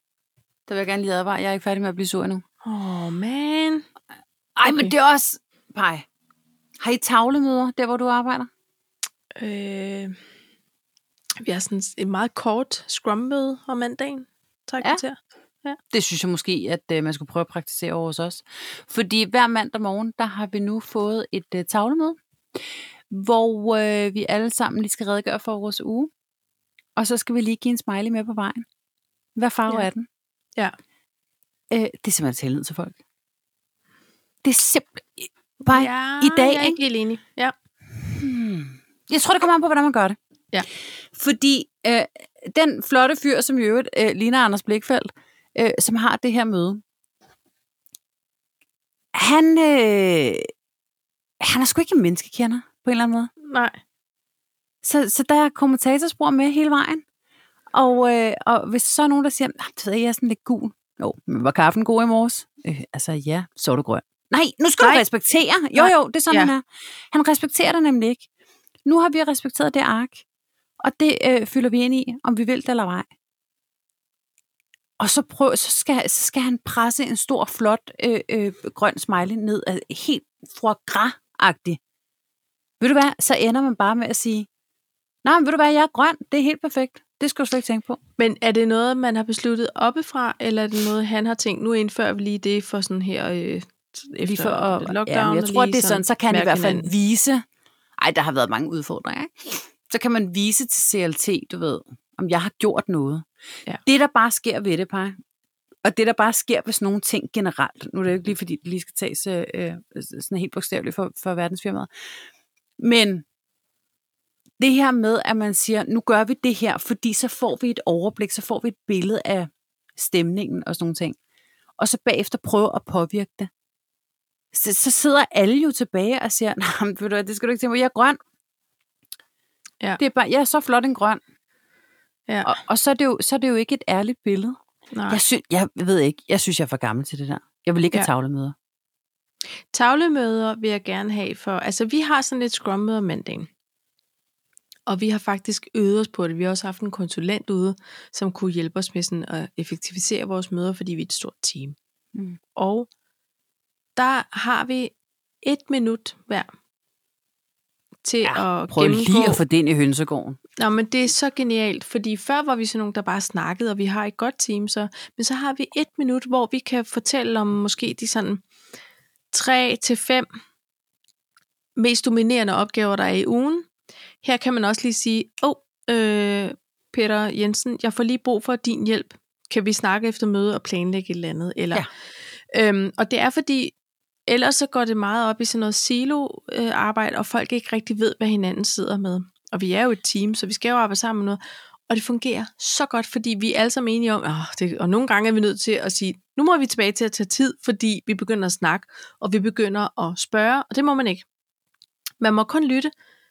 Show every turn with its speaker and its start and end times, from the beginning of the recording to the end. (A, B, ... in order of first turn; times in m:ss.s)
0:00.7-0:02.4 A
0:02.6-0:03.9 B
0:04.6-0:06.1 A
0:04.6-0:04.9 B
0:06.8-0:08.5 A
0:09.4-0:10.2 B
0:11.4-0:15.8 B
0:15.9-0:22.2 A
0:23.1-0:26.1 A
0:27.0-0:28.7 A
0:29.4-0:30.1 A
0:31.7-0:33.0 A
0:34.4-0:36.8 A
0:35.7-0:37.5 B
0:38.0-0:40.2 A
0:41.1-0:46.8 A
0:49.1-0:50.5 A
0:51.4-0:53.3 A
0:53.4-0:53.8 B
0:54.8-0:57.0 A
0:57.7-1:08.3 A
1:04.8-1:05.0 B
1:05.7-1:06.5 B
1:08.8-1:10.2 A
1:10.8-1:13.1 A
1:15.0-1:21.8 A
1:22.8-1:24.5 A
1:25.2-1:28.0 A
1:28.2-1:36.9 B
1:34.2-1:37.4 A
1:38.0-1:43.3 A
1:43.8-1:45.2 A
1:45.8-1:51.9 A
1:52.8-1:53.2 A
1:54.6-2:01.2 A
2:01.8-2:03.5 A
2:04.5-2:08.2 A
2:10.0-2:11.2 A
2:12.4-2:14.6 A
2:14.9-2:15.2 B
2:15.1-2:18.6 A
2:19.7-2:23.5 B
2:24.9-2:31.8 B
2:32.6-2:32.9 B
2:34.0-2:36.5 B
2:38.0-2:39.4 B
2:38.2-2:40.4 A
2:40.6-2:48.4 B
2:49.3-2:50.3 B
2:51.8-2:53.7 B
2:54.2-3:01.9 B
3:02.5-3:03.7 B
3:04.3-3:21.3 B
3:22.2-3:22.9 B